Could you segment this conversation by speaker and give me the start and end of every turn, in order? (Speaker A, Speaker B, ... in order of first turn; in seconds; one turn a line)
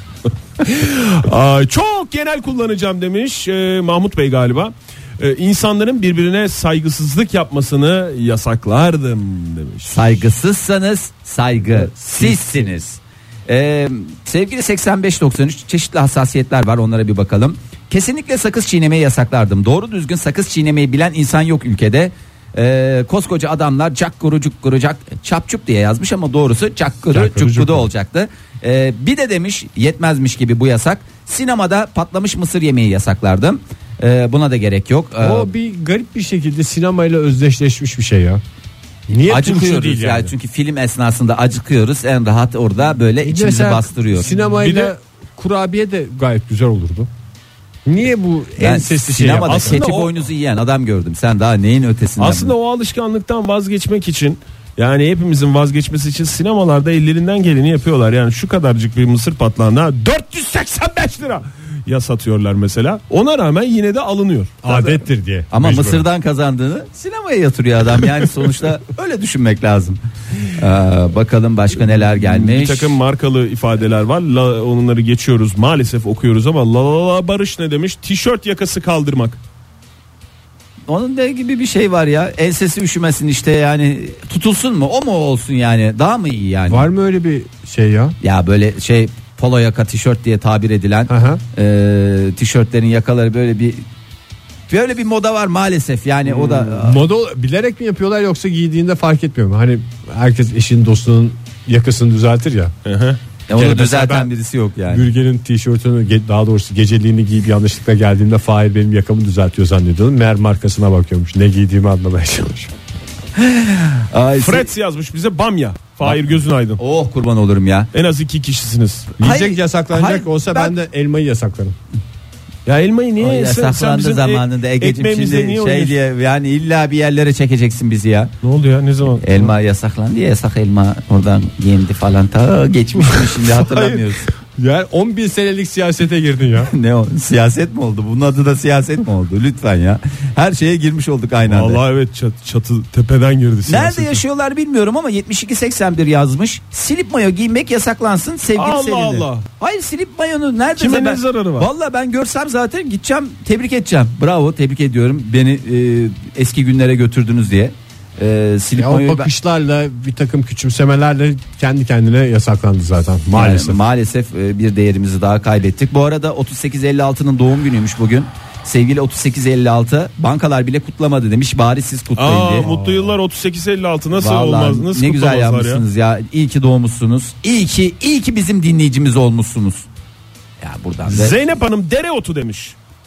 Speaker A: 0.6-10.3
Speaker B: 9.9-35.5
Speaker C: 27.1-27.9
Speaker C: 35.2-38.4
Speaker C: 39.1-40.3
Speaker B: 39.2-44.4
Speaker C: 43.2-47.1
Speaker A: 44.6-44.9
Speaker C: 47.9-49.9
Speaker B: 48.6-52.5
Speaker A: 49.5-50.2
Speaker A: 52.2-65.0
Speaker C: 64.6-66.1
Speaker B: 65.5-73.0
Speaker A: 72.2-79.4
Speaker B: 80.9-86.9
Speaker C: 86.7-88.2
Speaker B: 88.2-93.8
Speaker C: 91.1-91.4
Speaker B: 94.7-97.0
Speaker C: 96.4-102.7
Speaker A: 102.8-103.2
Speaker B: 103.5-105.1
Speaker C: 103.5-104.3
Speaker C: 104.9-112.7
Speaker B: 113.3-114.7
Speaker A: 114.4-116.8
Speaker B: 116.8-117.9
Speaker A: 117.9-119.1
Speaker C: 119.2-121.8
Speaker B: 119.2-120.8
Speaker A: 122.7-126.0
Speaker B: 123.2-128.3
Speaker A: 128.4-129.4
Speaker B: 129.2-134.3
Speaker C: 133.2-134.0
Speaker C: 134.6-136.7
Speaker B: 136.7-141.8
Speaker A: 141.5-144.2
Speaker B: 143.7-159.3
Speaker A: 148.6-149.4
Speaker A: 150.8-151.7
Speaker C: 158.8-163.8
Speaker B: 163.3-172.7
Speaker A: 172.2-175.8
Speaker C: 172.6-173.2
Speaker B: 174.2-179.9
Speaker B: 180.6-181.4
Speaker A: 181.1-182.8